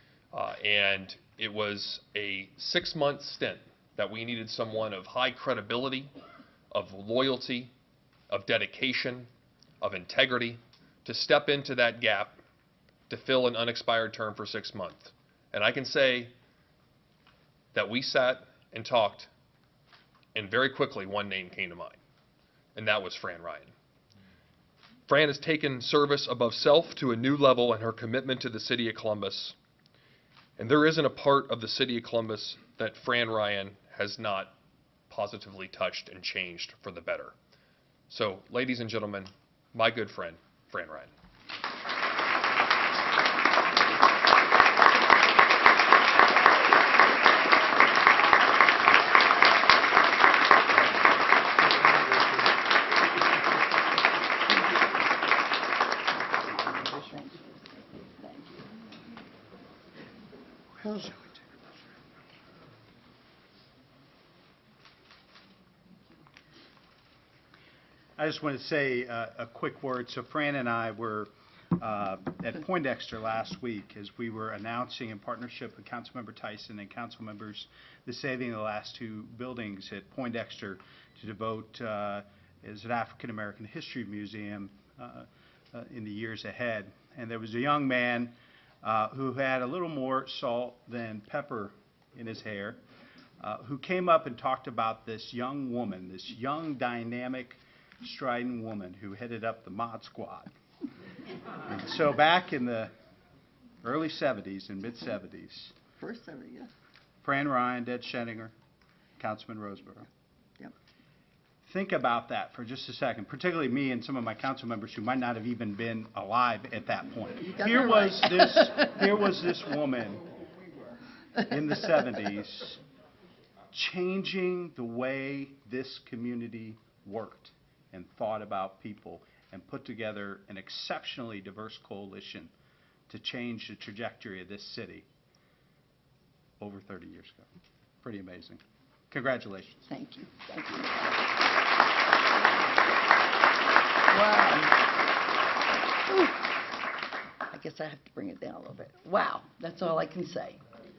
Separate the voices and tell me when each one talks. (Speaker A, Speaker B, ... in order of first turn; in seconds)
Speaker A: 0.3-6.1, 6.7-7.7, 8.3-9.3, 9.8-12.4, 13.1-16.3, 17.7-19.3, 20.4-22.0, 22.8-23.7, 25.1-29.6, 30.6-34.5, 35.1-37.4, 38.1-41.1
Speaker B: 56.6-57.6, 58.2-58.7, 106.0-106.7, 117.5-119.3, 139.9-141.1, 144.1-144.9, 146.1-146.5, 147.5-150.6
Speaker C: 68.2-92.8, 93.4-100.5, 101.7-102.9, 103.8-105.7, 107.2-108.5, 109.2-110.1, 111.7-120.2, 121.5-122.8, 123.7-132.5, 133.1-135.1, 136.6-137.5, 138.0-139.8